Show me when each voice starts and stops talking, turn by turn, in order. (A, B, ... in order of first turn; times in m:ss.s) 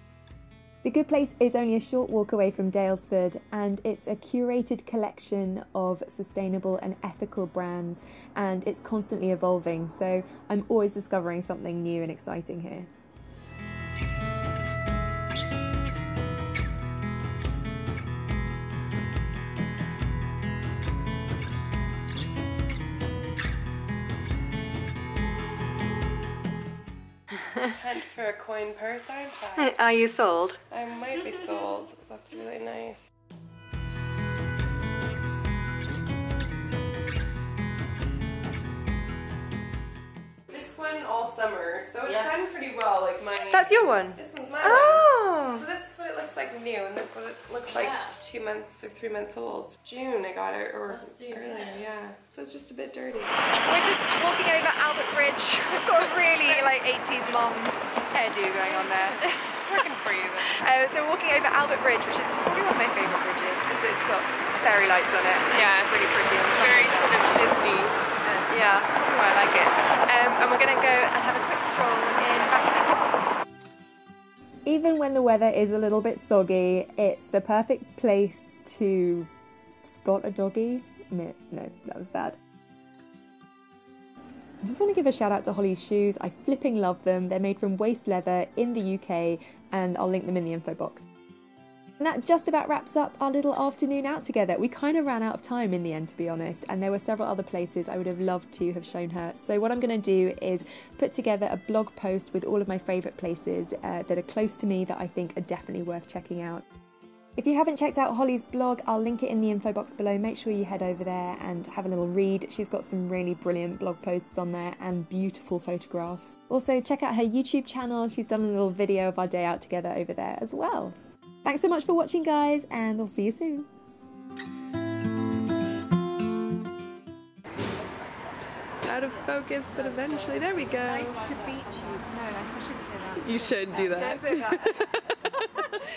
0:00.8-0:12.9 A
0:27.7-0:29.8 B
0:29.6-0:30.6 A
0:30.7-0:33.1 B
0:40.5-0:53.3 B
0:43.5-0:45.6 A
0:44.6-0:45.4 C
0:53.7-0:59.3 C
0:55.8-0:57.5 A
0:55.9-0:56.9 B
0:58.3-0:59.2 A
0:58.9-1:00.9 B
1:00.7-1:01.7 C
1:01.0-1:02.4 A
1:02.4-1:07.3 C
1:03.8-1:05.2 A
1:05.5-1:08.1 B
1:08.5-1:13.2 C
1:14.7-1:19.3 A
1:19.8-1:22.4 A
1:24.6-1:31.1 A
1:32.0-1:46.6 A
1:47.4-2:03.7 A
2:08.8-2:11.2 B
2:10.9-2:15.8 A
2:13.2-2:14.6 B
2:13.8-2:14.5 C